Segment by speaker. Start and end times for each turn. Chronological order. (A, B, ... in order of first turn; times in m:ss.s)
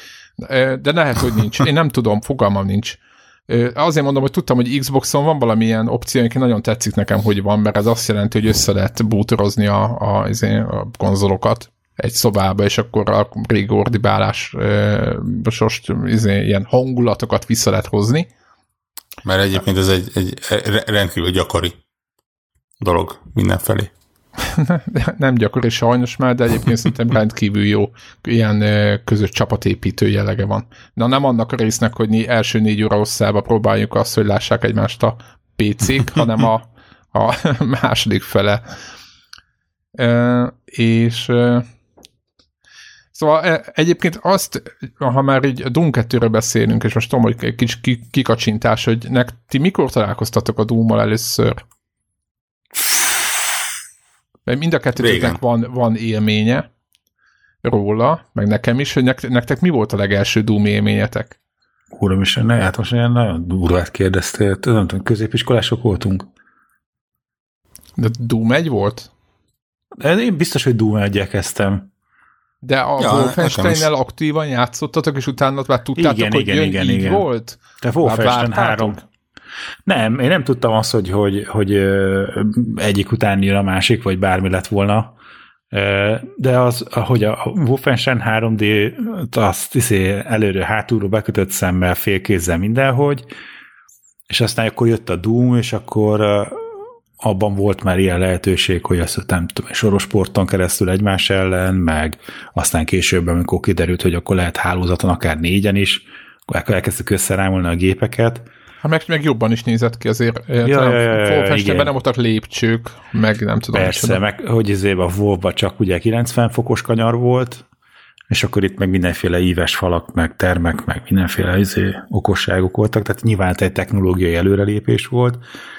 0:00.4-0:18.3 A
0:19.2-0:21.8 B
0:22.8-0:23.9 B
0:24.4-0:38.8 A
0:40.0-0:41.7 A
0:43.1-0:51.6 A
0:54.5-0:56.7 A
0:55.0-0:55.4 B
0:57.6-1:01.4 A
1:01.9-1:06.3 C
1:08.0-1:09.1 A
1:10.0-1:11.9 C
1:12.6-1:19.0 A
1:13.0-1:13.9 B
1:15.9-1:17.3 C
1:17.8-1:19.0 C
1:19.8-1:25.2 C
1:25.7-1:33.3 C
1:34.3-1:36.6 C
1:37.2-1:48.5 C
1:48.8-1:54.2 A
1:50.6-1:51.9 C
1:53.7-1:57.6 C
1:58.3-2:05.4 C